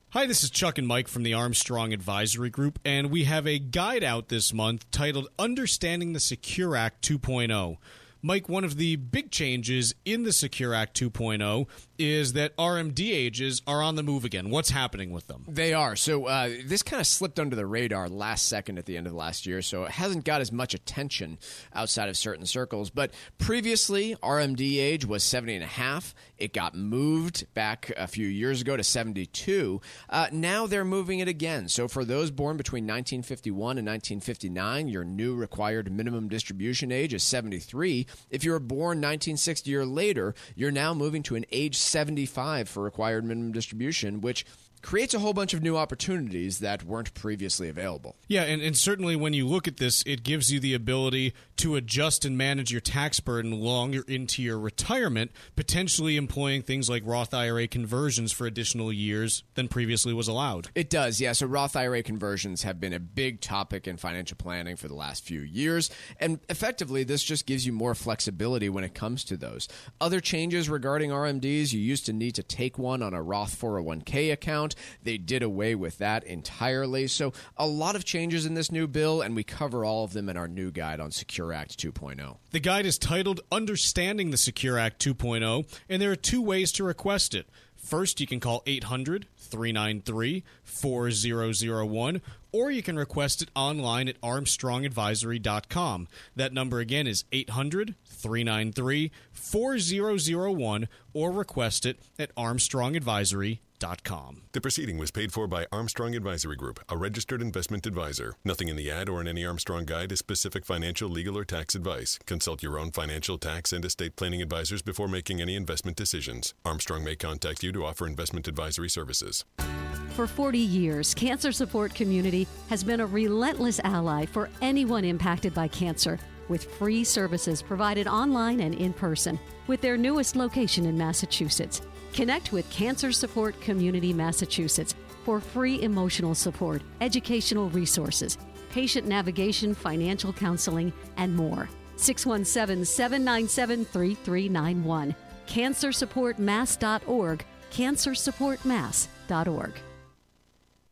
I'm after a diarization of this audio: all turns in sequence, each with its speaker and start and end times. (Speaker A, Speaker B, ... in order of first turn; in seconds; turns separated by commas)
Speaker A: 0.1-15.5, Speaker B: 15.5-48.2, Speaker A: 48.3-60.7, Speaker B: 60.7-82.4, Speaker A: 82.5-104.5, Speaker C: 104.5-119.5, Speaker D: 120.1-149.8